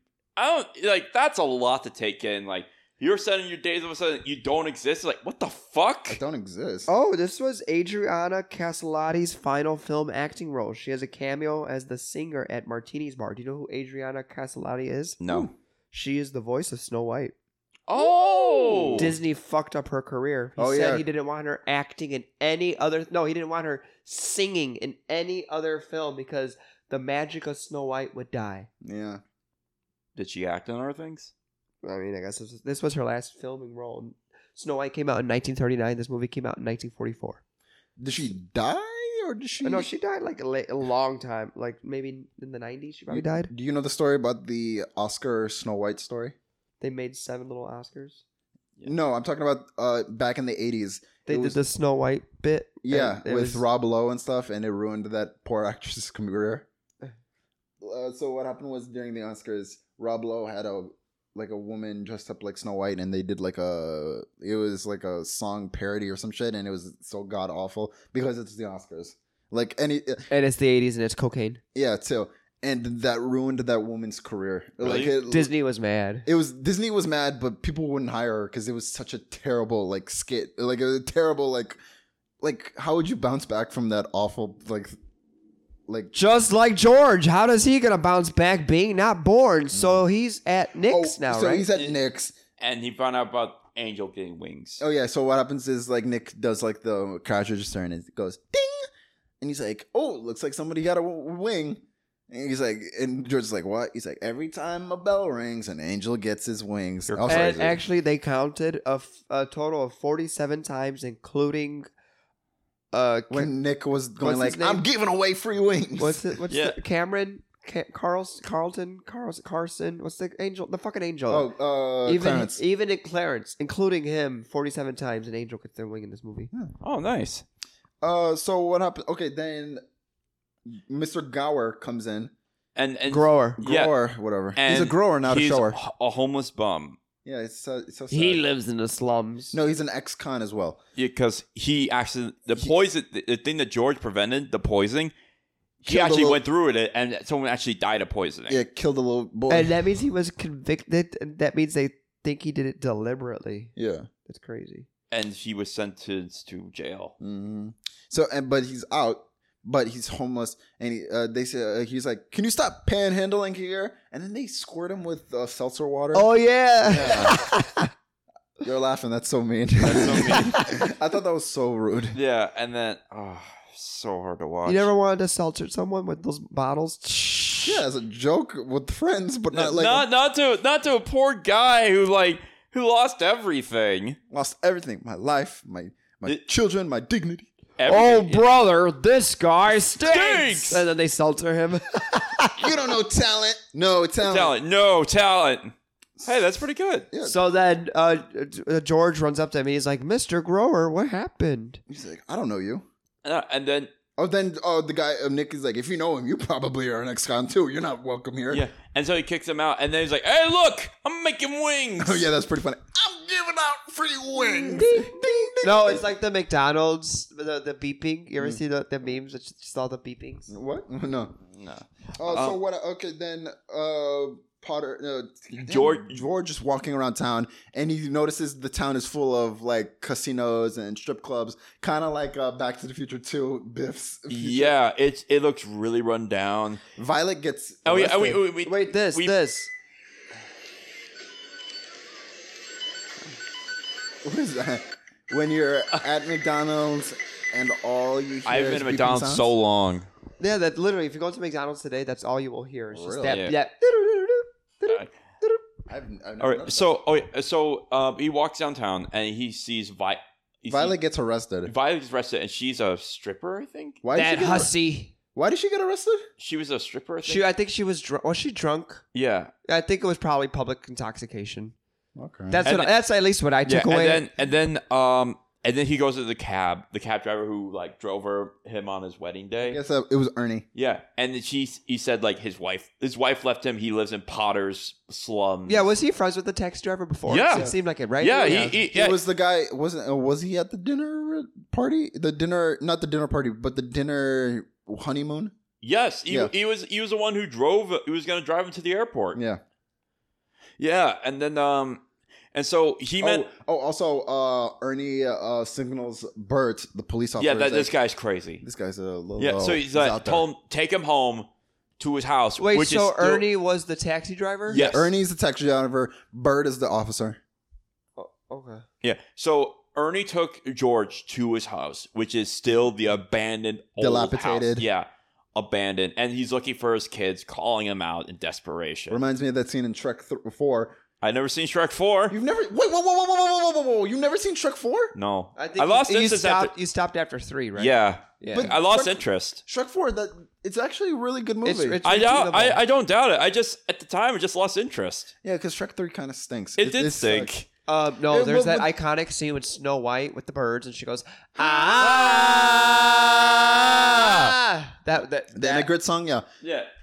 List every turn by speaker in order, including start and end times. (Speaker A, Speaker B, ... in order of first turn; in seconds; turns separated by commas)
Speaker A: 0.3-6.2, Speaker B: 6.1-6.9, Speaker C: 6.9-15.2, Speaker A: 15.2-15.5, Speaker B: 15.3-15.5, Speaker C: 15.9-17.3, Speaker A: 17.9-19.1, Speaker B: 18.0-19.1, Speaker C: 18.9-28.7, Speaker B: 20.6-21.0, Speaker B: 28.8-29.2, Speaker A: 30.1-31.3, Speaker C: 31.8-37.4, Speaker B: 38.0-39.9, Speaker C: 39.6-43.5, Speaker B: 43.1-46.3, Speaker C: 46.8-48.2, Speaker B: 48.8-51.6, Speaker C: 51.3-53.6, Speaker B: 52.8-56.7, Speaker B: 57.8-70.3, Speaker C: 70.3-71.6, Speaker B: 71.7-75.5, Speaker A: 74.8-75.1, Speaker C: 75.2-76.3, Speaker B: 76.2-81.8, Speaker B: 82.4-85.0, Speaker B: 85.9-86.1, Speaker C: 86.1-91.7, Speaker B: 89.7-90.0, Speaker B: 90.9-92.3, Speaker A: 92.6-94.8, Speaker B: 94.8-98.8, Speaker B: 99.4-107.8, Speaker A: 107.1-107.6, Speaker C: 107.2-111.9, Speaker C: 112.9-113.5, Speaker B: 113.3-116.3, Speaker C: 114.2-114.8, Speaker C: 116.0-121.5, Speaker A: 116.5-116.8, Speaker B: 121.3-122.6, Speaker C: 122.0-126.5, Speaker A: 126.8-127.4, Speaker B: 128.0-129.8, Speaker B: 130.7-132.3, Speaker A: 132.8-133.9, Speaker C: 133.1-133.6, Speaker B: 133.6-135.8, Speaker A: 134.5-137.0, Speaker B: 137.2-138.4, Speaker C: 138.1-139.6, Speaker B: 139.5-140.8, Speaker A: 140.9-145.1, Speaker A: 145.8-148.6, Speaker B: 145.8-146.4, Speaker B: 148.5-149.7, Speaker C: 149.5-153.7, Speaker B: 153.8-154.1, Speaker C: 154.3-154.9, Speaker A: 155.1-157.1, Speaker B: 157.2-166.3, Speaker C: 166.1-167.9, Speaker B: 166.9-167.3, Speaker A: 166.9-167.3, Speaker B: 168.6-172.2, Speaker A: 169.8-170.6, Speaker C: 170.4-170.7, Speaker A: 172.1-174.9, Speaker C: 174.7-177.8, Speaker B: 177.6-180.1, Speaker A: 179.5-184.2, Speaker B: 184.3-187.5, Speaker A: 187.8-188.4, Speaker C: 187.8-192.7, Speaker A: 190.0-190.8, Speaker B: 192.5-194.5, Speaker A: 194.2-195.7, Speaker A: 196.2-197.1, Speaker B: 197.1-197.4, Speaker C: 197.2-201.8, Speaker B: 201.9-202.8, Speaker A: 203.2-203.9, Speaker B: 204.2-208.6, Speaker A: 208.5-212.3, Speaker B: 212.0-216.0, Speaker C: 214.4-220.5, Speaker B: 220.5-221.4, Speaker A: 221.5-222.6, Speaker B: 222.2-234.7, Speaker A: 225.6-226.2, Speaker A: 234.3-236.8, Speaker B: 237.0-238.4, Speaker A: 237.8-239.3, Speaker C: 238.6-239.7, Speaker B: 244.2-249.5, Speaker A: 248.4-250.1, Speaker C: 250.4-255.6, Speaker B: 252.9-253.4, Speaker A: 253.2-253.6, Speaker B: 255.9-256.9, Speaker A: 256.4-260.9, Speaker B: 260.7-261.7, Speaker A: 261.6-264.0, Speaker B: 264.0-264.7, Speaker C: 264.1-265.1, Speaker B: 265.3-266.3, Speaker A: 266.4-267.4, Speaker C: 267.2-269.0, Speaker A: 269.1-269.5, Speaker C: 269.7-271.7, Speaker B: 272.1-272.6, Speaker C: 272.5-274.3, Speaker A: 272.6-272.9, Speaker A: 273.6-279.8, Speaker B: 279.6-280.6, Speaker A: 280.7-285.8, Speaker C: 285.6-288.9, Speaker A: 287.3-289.2, Speaker B: 288.9-295.5, Speaker A: 295.8-299.4, Speaker B: 299.3-299.6, Speaker A: 300.8-302.0, Speaker A: 302.5-303.4, Speaker B: 303.2-307.9, Speaker A: 307.4-308.6, Speaker B: 308.6-310.5, Speaker A: 309.4-311.5, Speaker A: 312.0-313.4, Speaker C: 312.6-314.8, Speaker B: 314.7-317.4, Speaker A: 314.7-315.1, Speaker C: 318.1-318.9, Speaker A: 319.0-329.2, Speaker B: 324.0-324.9, Speaker B: 329.1-331.0, Speaker A: 331.2-332.4, Speaker B: 332.3-335.1, Speaker A: 335.1-336.7, Speaker C: 335.6-338.7, Speaker A: 337.8-339.6, Speaker B: 338.5-342.0, Speaker C: 341.6-342.8, Speaker A: 342.0-345.3, Speaker B: 345.4-347.5, Speaker A: 346.8-347.7, Speaker C: 347.9-355.9, Speaker B: 348.3-348.9, Speaker A: 352.0-354.4, Speaker B: 355.5-356.4, Speaker A: 356.6-356.9